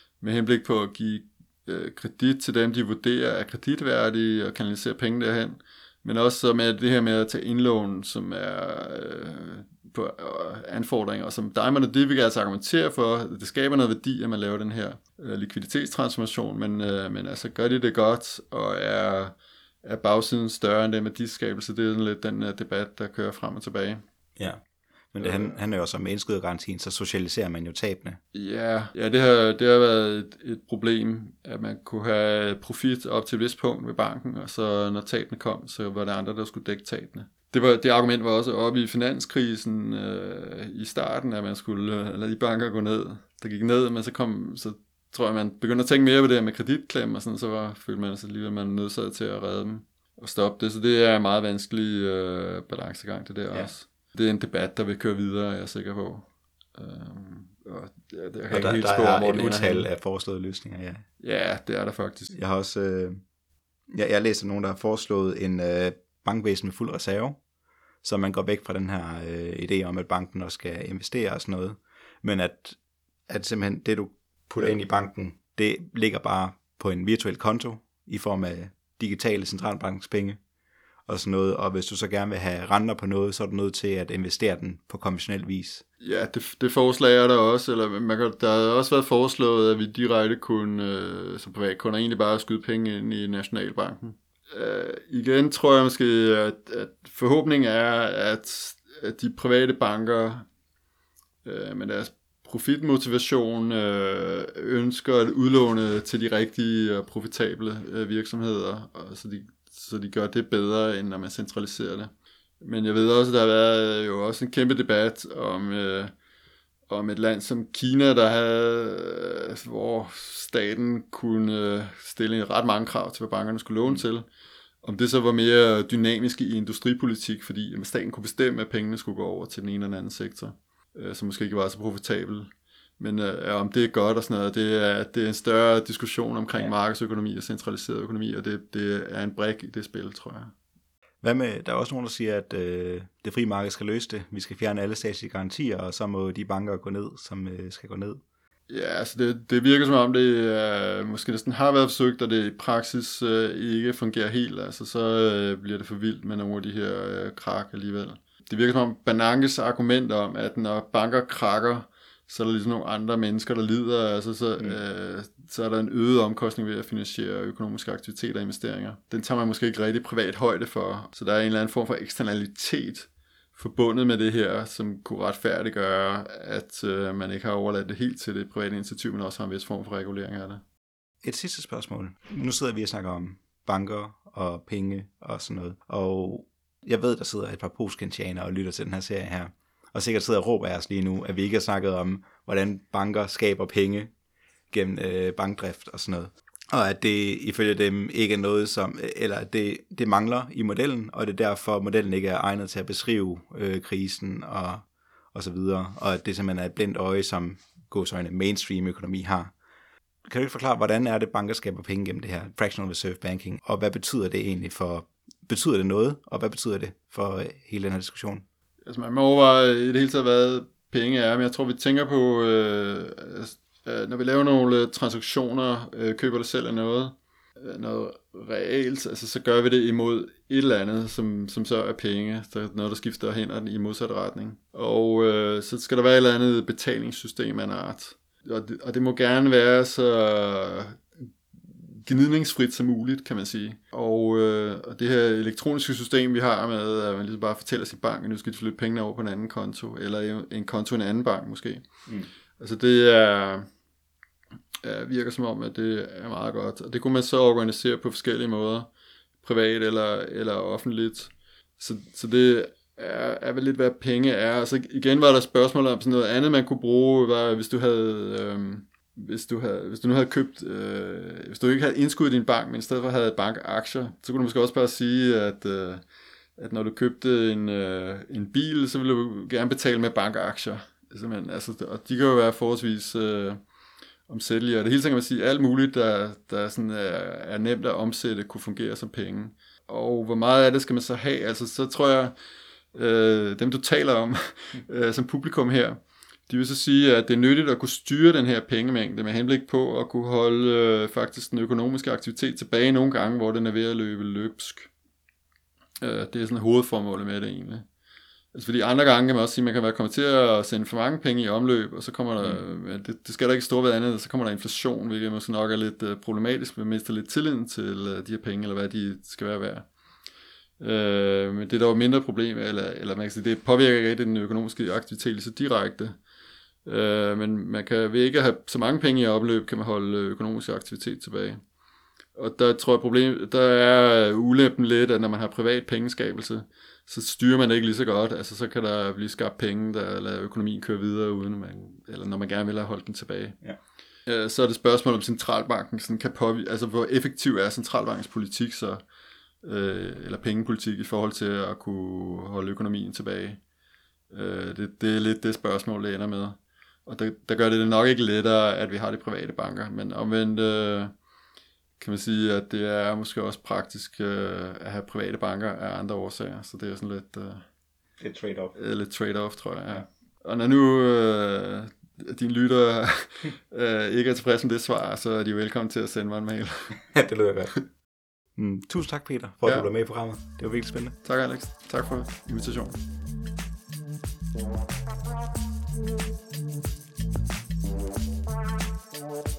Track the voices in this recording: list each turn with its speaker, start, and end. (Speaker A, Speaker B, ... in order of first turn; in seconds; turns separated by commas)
Speaker A: 0.2-24.0, Speaker B: 25.1-28.2, Speaker A: 25.2-25.5, Speaker A: 28.3-59.9, Speaker B: 58.5-61.0, Speaker A: 61.2-62.3, Speaker B: 62.3-63.2, Speaker B: 63.9-67.4, Speaker B: 68.0-80.4, Speaker B: 81.1-85.8, Speaker A: 86.0-100.5, Speaker A: 101.5-116.1, Speaker A: 116.9-124.3, Speaker A: 124.8-140.5, Speaker B: 141.2-148.2, Speaker A: 148.7-180.6, Speaker B: 181.2-194.1, Speaker B: 194.7-209.5, Speaker B: 210.2-218.4, Speaker A: 218.9-241.0, Speaker A: 241.7-251.9, Speaker A: 252.6-253.7, Speaker A: 254.8-258.9, Speaker A: 259.4-276.0, Speaker A: 276.6-283.6, Speaker A: 284.3-292.3, Speaker A: 292.9-304.9, Speaker A: 306.0-307.9, Speaker A: 308.5-319.9, Speaker A: 320.8-326.2, Speaker A: 326.9-331.6, Speaker A: 332.4-343.6, Speaker A: 344.3-349.0, Speaker A: 349.6-353.6, Speaker A: 354.3-361.1, Speaker A: 362.0-367.6, Speaker B: 368.2-368.8, Speaker A: 368.8-377.0, Speaker B: 377.0-377.7, Speaker B: 378.6-381.2, Speaker A: 379.6-379.9, Speaker A: 381.2-383.0